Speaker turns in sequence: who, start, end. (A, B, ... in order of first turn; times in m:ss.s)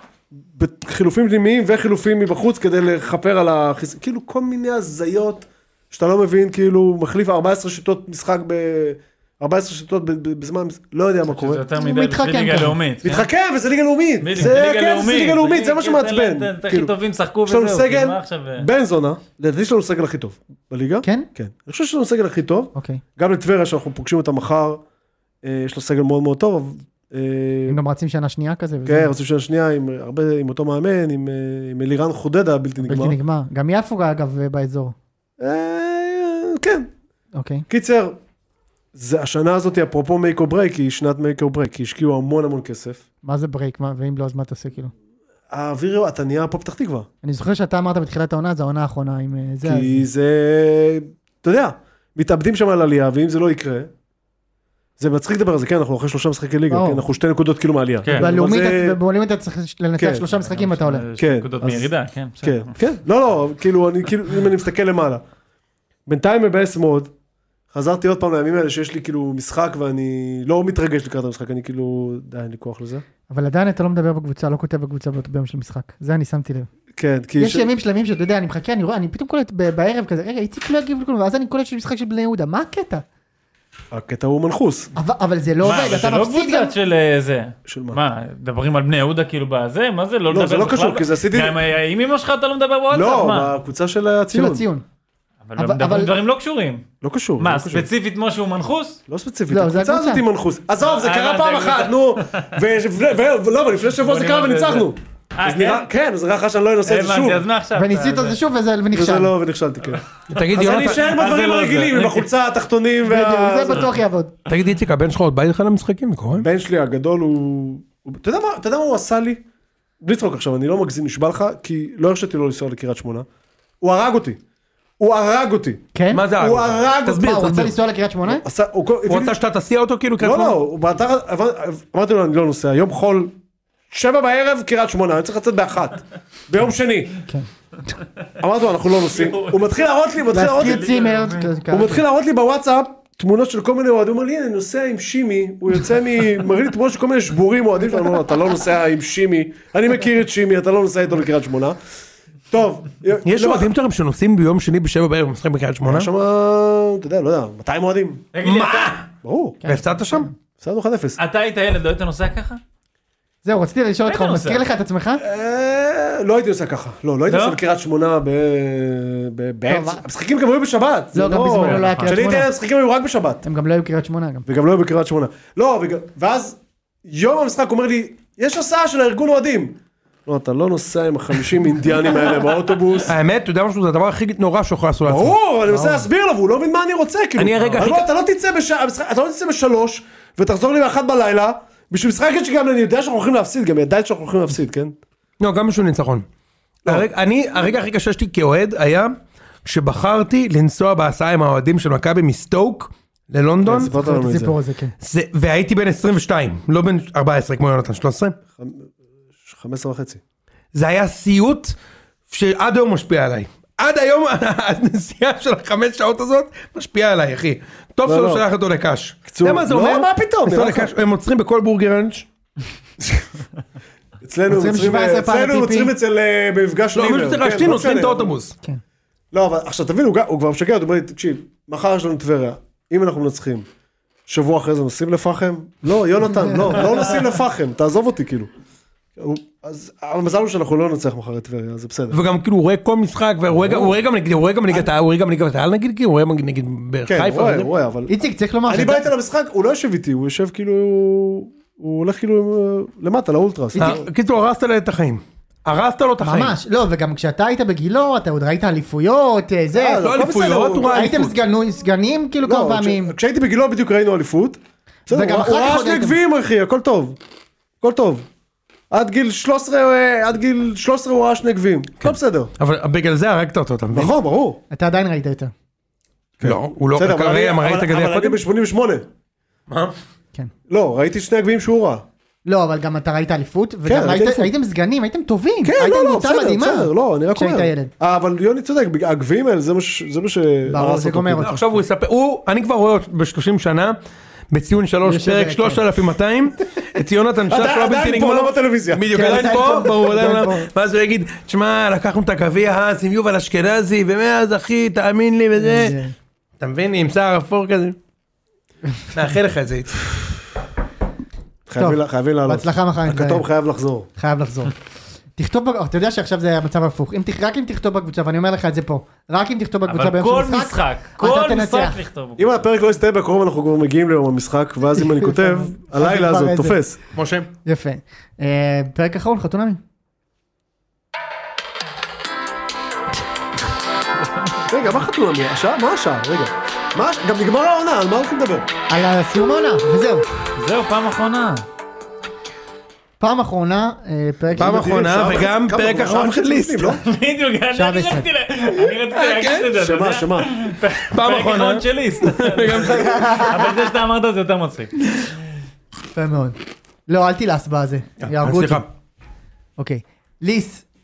0:00.3-0:11.6 A
0:11.3-0:13.3 B
0:11.7-0:12.8 C
0:13.0-0:16.9 A
0:14.2-0:18.7 B
0:17.4-0:24.8 A
0:21.0-0:21.3 C
0:22.8-0:23.0 C
0:25.4-0:27.8 A
0:27.7-0:29.1 C
0:28.9-0:33.2 A
0:32.8-0:35.0 C
0:35.4-0:36.9 A
0:37.4-0:37.7 C
0:37.7-0:38.2 A
0:38.9-0:43.0 A
0:43.2-0:44.9 C
0:45.5-0:47.1 A
0:47.2-0:50.1 C
0:49.6-0:53.9 A
0:55.0-0:59.0 A
0:56.7-0:57.0 C
0:58.2-1:01.1 C
1:00.0-1:00.2 A
1:00.3-1:02.7 B
1:01.2-1:01.9 A
1:02.4-1:05.2 A
1:06.1-1:07.1 A
1:07.7-1:13.0 A
1:13.3-1:16.7 C
1:17.0-1:17.7 A
1:17.4-1:23.0 C
1:23.9-1:24.9 A
1:25.0-1:26.7 C
1:25.6-1:33.5 B
1:27.7-1:28.0 A
1:30.3-1:31.6 A
1:32.9-1:34.6 A
1:34.3-1:34.8 C
1:35.5-1:36.8 B
1:35.6-1:36.1 C
1:37.0-1:37.9 A
1:37.4-1:39.0 B
1:39.1-1:47.4 A
1:39.5-1:40.2 C
1:40.8-1:42.5 B
1:44.0-1:45.9 B
1:46.9-1:48.4 B
1:47.8-1:49.3 C
1:48.9-1:53.9 A
1:50.3-1:51.0 D
1:50.6-1:52.3 B
1:53.0-1:54.3 C
1:54.5-1:56.5 D
1:56.4-1:59.4 A
2:00.0-2:03.3 A
2:03.8-2:04.4 A
2:05.0-2:07.7 A
2:05.9-2:06.3 C
2:06.1-2:07.8 D
2:07.1-2:08.4 C
2:08.2-2:09.4 A
2:09.1-2:10.6 D
2:10.2-2:13.4 A
2:13.9-2:17.2 A
2:18.4-2:21.0 A
2:19.1-2:19.7 B
2:20.3-2:22.0 C
2:20.4-2:21.5 B
2:21.7-2:31.8 A
2:32.5-2:33.7 A
2:33.2-2:36.1 D
2:35.8-2:38.3 A
2:38.3-2:39.0 B
2:38.4-2:39.1 D
2:39.2-2:39.6 A
2:39.6-2:40.3 C
2:39.7-2:40.3 D
2:40.6-2:41.2 A
2:41.2-2:42.6 B
2:43.4-2:45.2 C
2:44.1-2:44.6 B
2:45.2-2:53.4 A
2:47.3-2:47.6 B
2:49.7-2:50.0 C
2:51.2-2:52.5 C
2:51.6-2:52.1 B
2:53.4-2:54.5 C
2:54.5-3:03.2 A
3:03.0-3:05.3 D
3:05.1-3:15.0 A
3:05.7-3:06.0 C
3:07.4-3:08.1 D
3:15.4-3:16.3 D
3:16.9-3:23.9 D
3:23.6-3:24.6 A
3:23.7-3:25.0 C
3:25.0-3:28.4 D
3:28.6-3:30.2 A
3:30.7-3:31.8 D
3:32.3-3:42.3 D
3:38.0-3:38.4 A
3:39.3-3:40.9 A
3:44.2-3:48.4 A
3:44.5-3:45.9 C
3:47.0-3:48.6 D
3:49.3-3:53.7 A
3:54.3-3:58.5 A
3:59.2-4:02.2 A
4:02.1-4:07.7 D
4:03.5-4:04.0 A
4:07.1-4:14.0 A
4:08.1-4:09.1 C
4:13.8-4:14.0 C
4:13.8-4:16.6 D
4:16.2-4:20.1 C
4:19.7-4:21.3 A
4:20.0-4:21.4 D
4:20.9-4:23.1 C
4:22.4-4:27.2 A
4:25.1-4:26.2 C
4:27.8-4:28.3 A
4:28.9-4:32.5 A
4:32.0-4:34.1 D
4:33.9-4:34.6 A
4:34.7-4:35.5 C
4:36.4-4:39.1 A
4:36.4-4:38.4 D
4:39.7-4:40.0 D
4:40.7-4:42.0 A
4:42.5-4:47.9 C
4:43.9-4:44.5 A
4:45.6-4:51.5 A
4:50.7-4:51.6 C
4:51.4-4:54.0 D
4:54.5-5:06.0 D
4:55.0-4:55.8 C
4:57.5-4:59.4 A
4:59.1-5:00.7 C
5:05.6-5:06.1 C
5:06.6-5:08.0 D
5:09.1-5:10.4 D
5:11.7-5:14.1 A
5:11.8-5:13.5 C
5:14.2-5:14.7 C
5:15.4-5:22.0 C
5:19.9-5:22.6 B
5:22.4-5:27.0 A
5:25.0-5:26.8 C
5:27.1-5:27.5 D
5:27.6-5:29.8 C
5:34.7-5:38.7 A
5:38.9-5:40.3 C
5:40.6-5:41.6 B
5:43.2-5:45.0 C
5:44.6-5:47.0 A
5:44.6-5:47.0 D
5:47.0-5:55.0 B
5:47.7-5:48.3 C
5:49.2-5:49.6 D
5:49.7-5:50.6 A
5:51.1-5:53.2 D
5:52.9-5:53.7 C
5:56.1-5:58.9 C
5:58.2-5:58.9 D
5:59.8-6:00.8 C